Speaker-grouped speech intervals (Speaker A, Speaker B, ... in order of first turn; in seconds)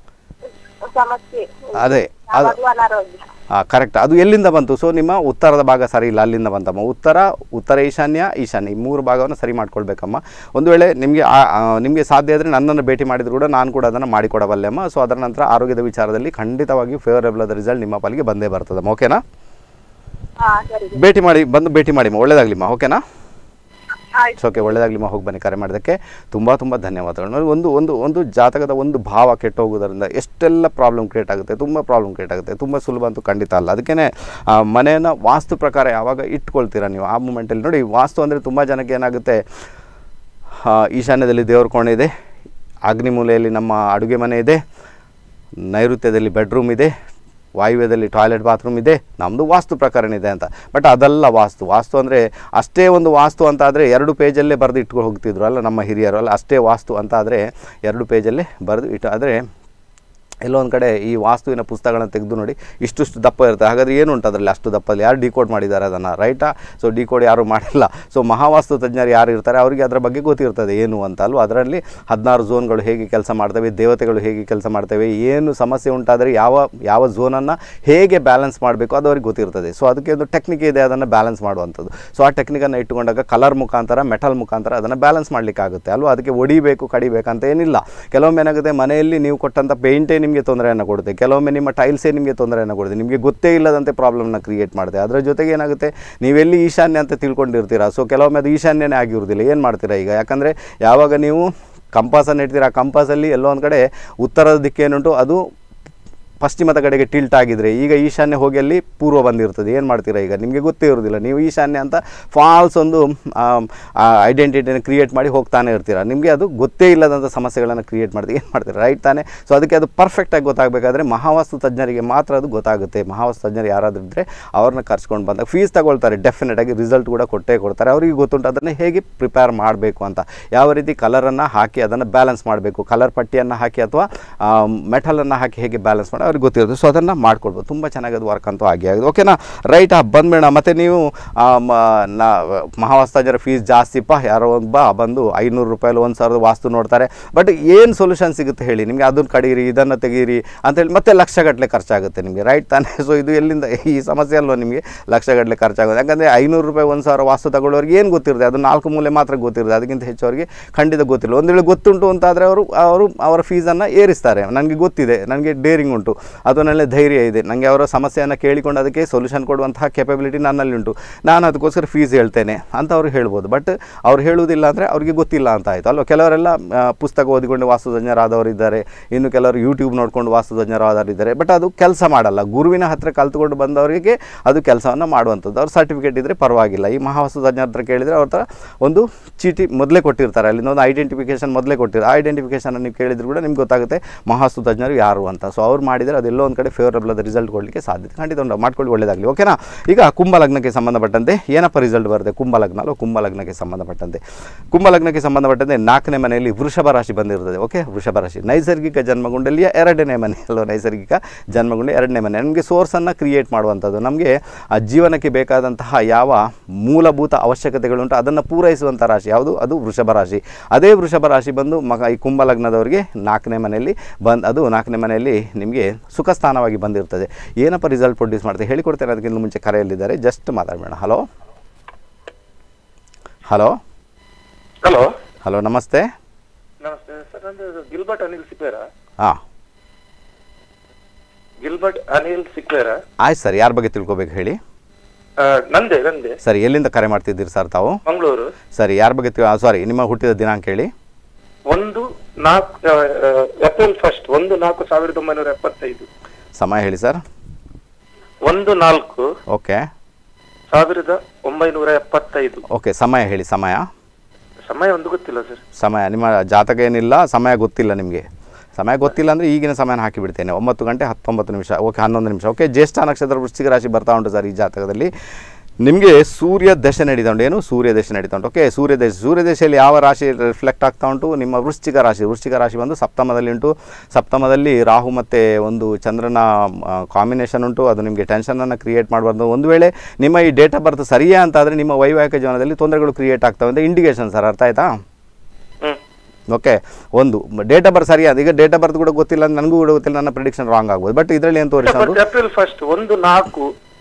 Speaker A: 0.8-3.2, 20.4-21.0, 24.1-24.8
Speaker B: 1.7-2.6, 3.5-19.2, 20.9-23.0, 24.4-39.4, 40.6-42.1, 42.9-44.6, 45.7-46.9, 47.6-59.4, 60.4-105.4, 106.4-204.2, 204.7-231.2, 233.5-233.8, 235.4-236.1, 243.2-244.6, 246.4-248.0, 248.8-250.9, 256.6-257.2, 259.5-259.9, 262.7-263.9, 265.8-275.1, 275.8-294.9, 296.5-302.2
Speaker C: 234.8-235.1, 236.8-238.8, 241.6-243.0, 245.4-246.3, 248.1-248.5, 251.7-256.1, 258.4-259.2, 260.7-262.6, 264.7-265.6, 301.8-303.7